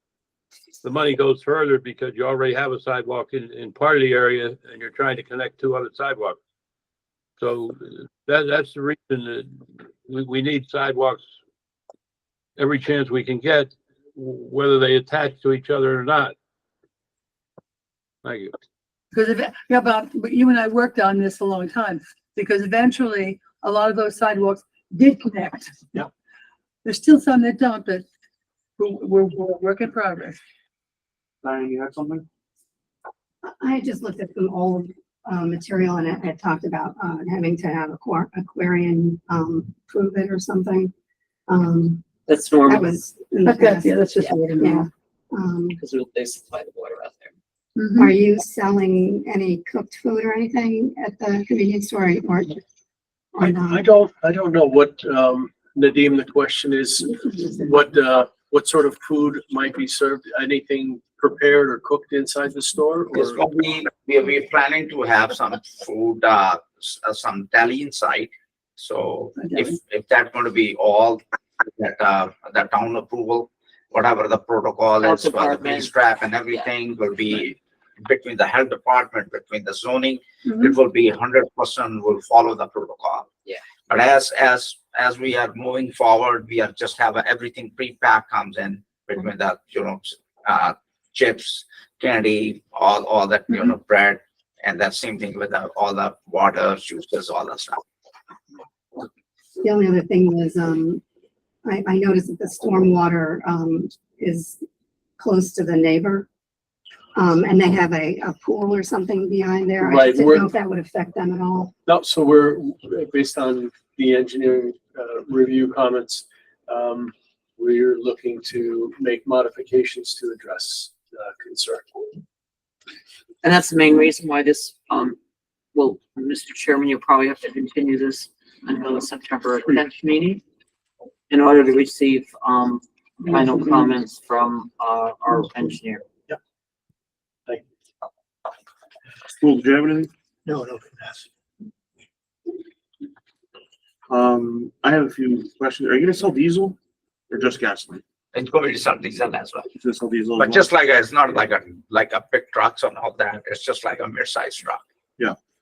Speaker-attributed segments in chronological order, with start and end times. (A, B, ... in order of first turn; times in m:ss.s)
0:00.8-0:06.4 A
0:07.4-0:11.2 A
0:12.6-0:16.3 A
0:18.2-0:18.5 A
0:19.1-0:25.8 B
0:26.8-0:28.0 B
0:28.8-0:30.4 B
0:31.4-0:32.2 C
0:33.4-0:40.9 D
0:41.5-0:45.8 D
0:42.3-0:42.9 E
0:43.4-0:44.9 B
0:45.8-0:47.3 E
0:47.8-0:48.1 B
0:48.0-0:52.6 D
0:53.3-0:53.9 D
0:53.4-1:03.4 F
1:03.1-1:23.3 G
1:09.4-1:09.8 B
1:15.0-1:15.9 E
1:20.4-1:20.7 B
1:23.9-1:37.8 G
1:39.6-1:41.0 D
1:41.6-1:44.6 D
1:45.2-1:46.3 D
1:47.1-1:51.7 D
1:49.8-1:50.5 F
1:51.8-2:02.1 F
2:03.4-2:05.2 E
2:05.7-2:10.4 E
2:11.3-2:16.0 E
2:19.4-2:20.1 C
2:24.1-2:26.8 C
2:27.3-2:28.0 C
2:28.3-2:29.6 G
2:29.8-2:30.7 C
2:30.4-2:34.8 G